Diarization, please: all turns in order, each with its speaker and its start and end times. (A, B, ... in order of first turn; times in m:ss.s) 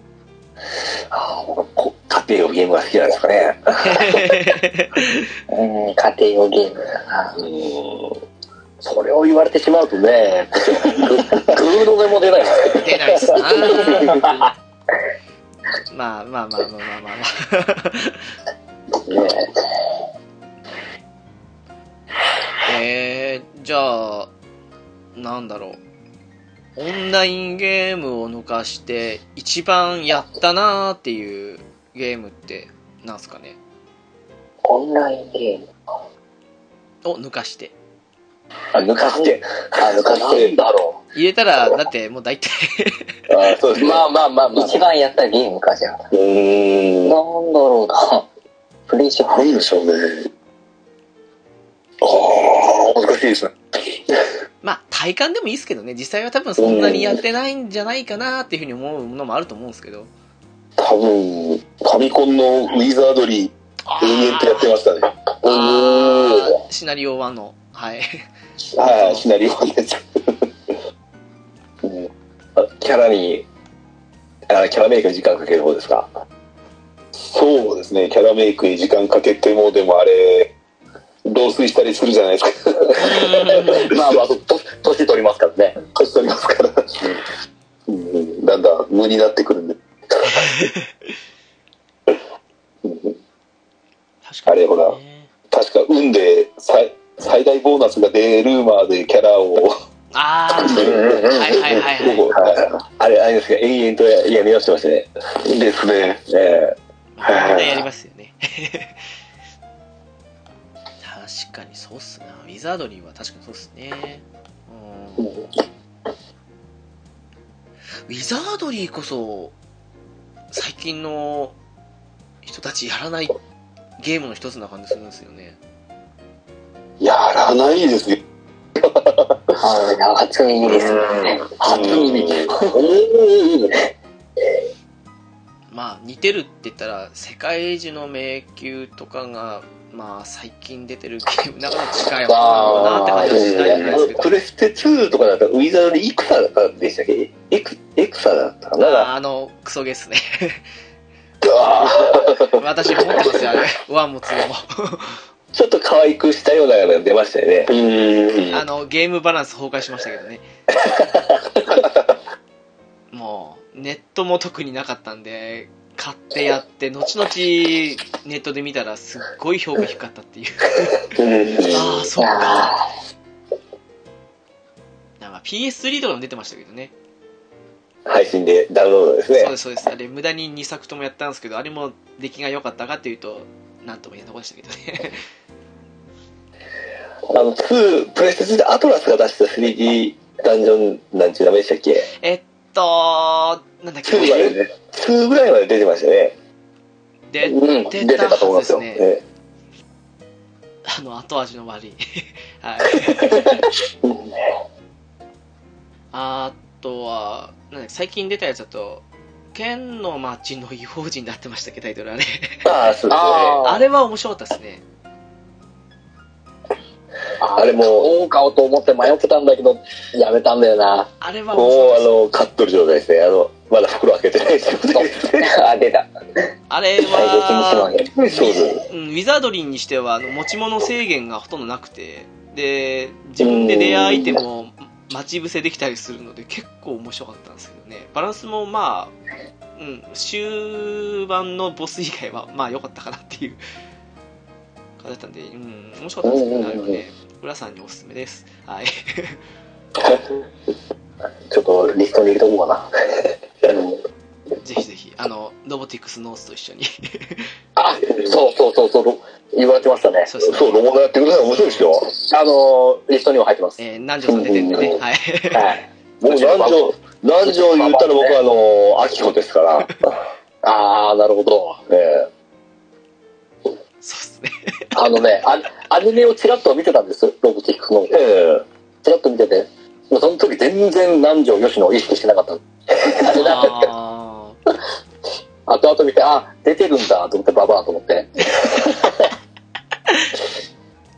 0:01.1-0:04.3 A
0:03.8-0:05.3 B
0:05.5-0:07.4 C
0:07.4-0:08.2 A
0:08.8-0:14.5 D
0:12.8-0:14.2 B
0:15.9-0:18.3 B
0:22.7-0:24.3 B
0:25.2-0:25.8 B
0:26.8-0:33.6 B
0:34.6-0:35.7 C
0:37.0-0:37.7 B
0:38.7-0:40.6 A
0:39.0-0:39.3 D
0:39.8-0:41.0 D
0:41.1-0:43.1 B
0:43.3-0:44.1 A
0:43.8-0:44.8 D
0:44.5-0:46.1 C
0:46.1-0:47.2 A
0:47.0-0:48.3 C
0:48.9-0:49.6 C
0:49.3-0:50.2 E
0:52.0-0:53.5 E
0:54.6-1:00.1 B
0:56.6-0:57.0 E
1:00.8-1:05.2 E
1:03.9-1:04.7 B
1:05.4-1:06.2 D
1:05.4-1:08.2 B
1:08.8-1:10.5 E
1:08.8-1:09.3 B
1:12.6-1:13.4 A
1:14.5-1:16.1 A
1:17.2-1:20.5 E
1:21.2-1:23.2 E
1:23.0-1:23.9 B
1:23.8-1:25.8 D
1:25.8-1:27.1 E
1:27.9-1:29.8 E
1:30.2-1:30.9 B
1:32.8-1:33.1 E
1:34.2-1:35.3 B
1:34.5-1:35.0 E
1:35.5-1:39.8 E
1:40.1-1:42.3 B
1:40.7-1:41.3 E
1:41.9-1:42.7 E
1:43.0-1:45.1 A
1:45.4-1:46.2 E
1:46.2-1:46.8 A
1:47.2-1:49.1 B
1:47.2-1:47.8 E
1:51.0-1:55.3 B
1:58.1-1:59.6 B
2:00.5-2:01.6 B
2:02.4-2:03.3 B
2:04.0-2:05.6 B
2:07.0-2:08.2 E
2:09.6-2:11.6 C
2:11.6-2:12.6 A
2:11.7-2:13.7 D
2:11.7-2:12.2 E
2:15.7-2:24.4 B
2:22.3-2:24.0 D
2:23.3-2:29.1 A
2:23.4-2:24.0 E
2:28.8-2:30.6 B
2:31.4-2:32.4 E
2:32.5-2:35.2 B
2:35.5-2:37.7 A
2:37.7-2:38.6 E
2:38.5-2:40.4 B
2:40.9-2:41.4 A
2:43.1-2:51.1 B
2:51.7-2:52.7 B
2:52.2-2:52.8 C
2:55.2-2:56.9 B
2:58.1-2:59.5 A
2:59.3-3:05.2 B
3:07.3-3:12.1 A
3:12.2-3:14.6 B
3:14.0-3:16.4 A
3:17.3-3:19.0 B
3:17.4-3:18.9 D
3:19.0-3:19.2 A
3:20.9-3:23.5 B
3:26.1-3:32.7 B
3:32.6-3:33.6 A
3:33.1-3:33.8 D
3:33.6-3:34.8 B
3:37.4-3:41.1 D
3:37.6-3:38.1 A
3:41.2-3:42.2 B
3:41.5-3:45.5 A
3:44.9-3:46.1 C
3:46.7-3:59.1 B
3:47.1-3:48.2 C
3:48.2-3:48.8 A
3:53.4-3:54.4 A
3:59.8-4:03.6 B
4:05.0-4:09.4 B
4:11.5-4:12.9 D
4:14.6-4:17.5 B
4:17.8-4:20.3 D
4:20.3-4:20.9 B
4:20.4-4:22.1 A
4:21.4-4:22.0 B
4:22.1-4:23.8 D
4:23.8-4:25.8 B
4:24.5-4:24.9 A
4:25.5-4:26.9 D
4:26.2-4:30.2 A
4:27.5-4:28.4 D
4:30.6-4:31.8 D
4:31.9-4:32.3 A
4:34.0-4:34.8 B
4:34.9-4:38.2 D
4:38.1-4:38.6 A
4:39.0-4:43.9 D
4:43.2-4:44.6 B
4:45.7-4:48.3 D